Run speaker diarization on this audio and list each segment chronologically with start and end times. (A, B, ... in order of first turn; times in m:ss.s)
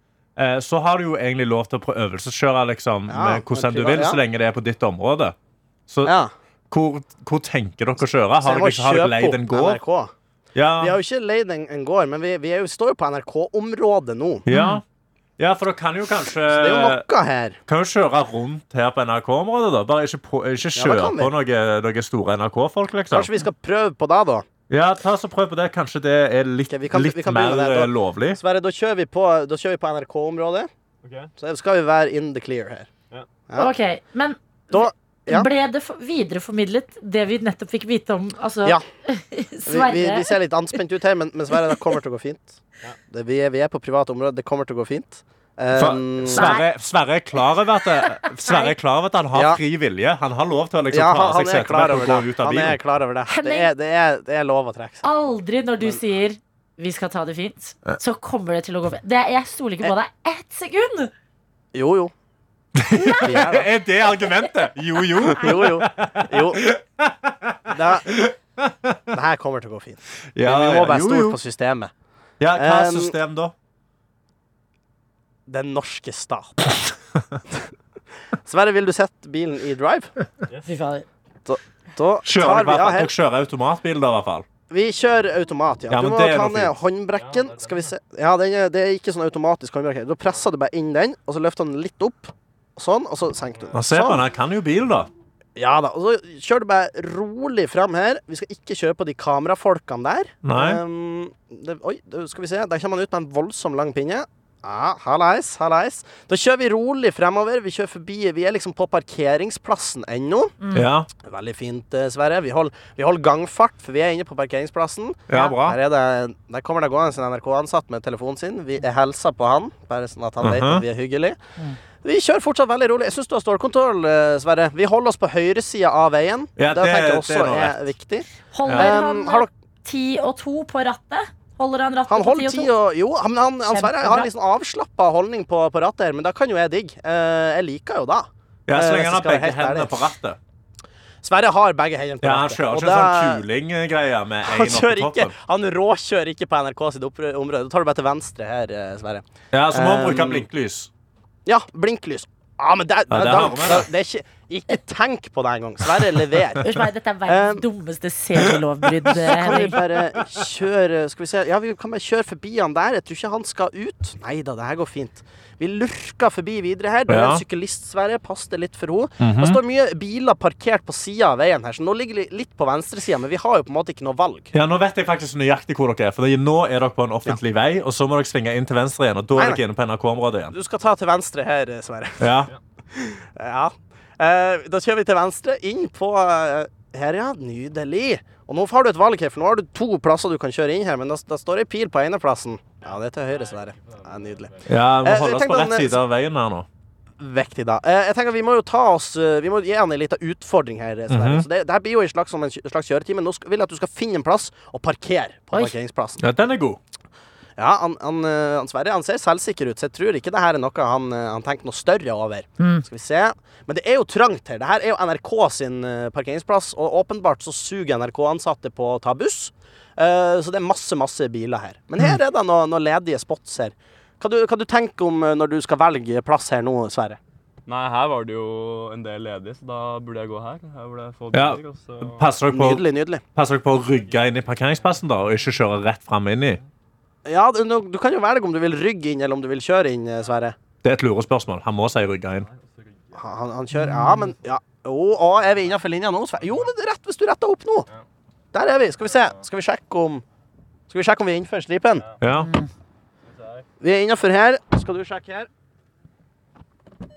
0:00.4-0:05.3 A
0:03.1-0:04.2 B
0:06.0-0:06.3 B
0:06.7-0:09.8 A
0:08.4-0:10.1 B
0:10.5-0:10.9 A
0:10.8-0:14.4 B
0:14.4-0:14.8 A
0:14.5-0:14.8 C
0:15.4-0:17.0 A
0:16.5-0:17.6 B
0:17.7-0:23.3 A
0:20.8-0:21.3 B
0:23.1-0:24.4 B
0:24.7-0:28.4 A
0:26.7-0:30.7 B
0:31.0-0:31.3 D
0:31.4-0:32.9 B
0:33.6-0:40.3 C
0:34.7-0:35.5 B
0:39.7-0:46.6 B
0:45.8-0:52.8 A
0:46.3-0:46.7 C
0:48.0-0:48.7 C
0:49.3-0:49.6 B
0:50.9-0:55.0 B
0:53.3-0:53.7 C
0:55.0-1:01.1 C
1:01.7-1:02.1 B
1:02.8-1:09.0 A
1:02.9-1:03.4 C
1:03.1-1:03.7 B
1:05.3-1:06.6 B
1:07.7-1:08.1 B
1:09.1-1:11.9 B
1:10.3-1:11.4 A
1:12.4-1:13.5 A
1:12.5-1:13.1 B
1:15.5-1:16.8 B
1:18.4-1:20.1 B
1:20.6-1:21.0 C
1:21.4-1:23.1 B
1:22.2-1:24.4 A
1:24.7-1:34.2 B
1:25.9-1:26.7 A
1:27.1-1:27.9 D
1:33.7-1:35.1 A
1:35.6-1:50.6 B
1:40.4-1:40.8 A
1:50.6-1:50.9 C
1:50.7-1:51.1 A
1:51.2-2:01.4 B
1:55.3-1:55.8 A
2:00.4-2:00.8 A
2:02.0-2:09.5 B
2:06.6-2:07.8 A
2:08.5-2:12.7 C
2:08.6-2:08.9 A
2:12.1-2:20.0 B
2:13.7-2:14.3 C
2:18.7-2:20.4 A
2:21.2-2:23.4 B
2:22.2-2:25.4 A
2:24.4-2:30.4 B
2:29.5-2:30.9 A
2:31.4-2:36.6 B
2:33.1-2:33.9 A
2:36.6-2:39.8 C
2:37.3-2:37.6 B
2:39.2-2:54.5 B
2:47.1-2:47.4 A
2:49.2-2:49.6 A
2:54.5-3:00.5 A
2:59.3-2:59.6 B
3:00.5-3:02.3 B
3:02.2-3:02.5 A
3:02.9-3:16.0 B
3:12.8-3:14.8 D
3:14.7-3:16.6 A
3:17.2-3:26.2 B
3:21.1-3:21.4 A
3:26.2-3:26.8 A
3:27.6-3:47.2 B
3:32.6-3:32.8 C
3:47.6-3:52.3 D
3:51.3-3:52.8 A
3:52.4-3:53.2 B
3:53.3-3:56.6 A
3:54.0-3:55.0 D
3:57.2-4:00.6 B
4:00.8-4:02.5 A
4:02.3-4:03.3 D
4:03.2-4:07.9 B
4:03.7-4:04.3 C
4:08.5-4:10.2 B
4:09.0-4:09.4 D
4:10.9-4:12.0 B
4:12.2-4:12.5 A
4:12.4-4:12.7 C
4:13.3-4:13.7 D
4:13.8-4:15.5 B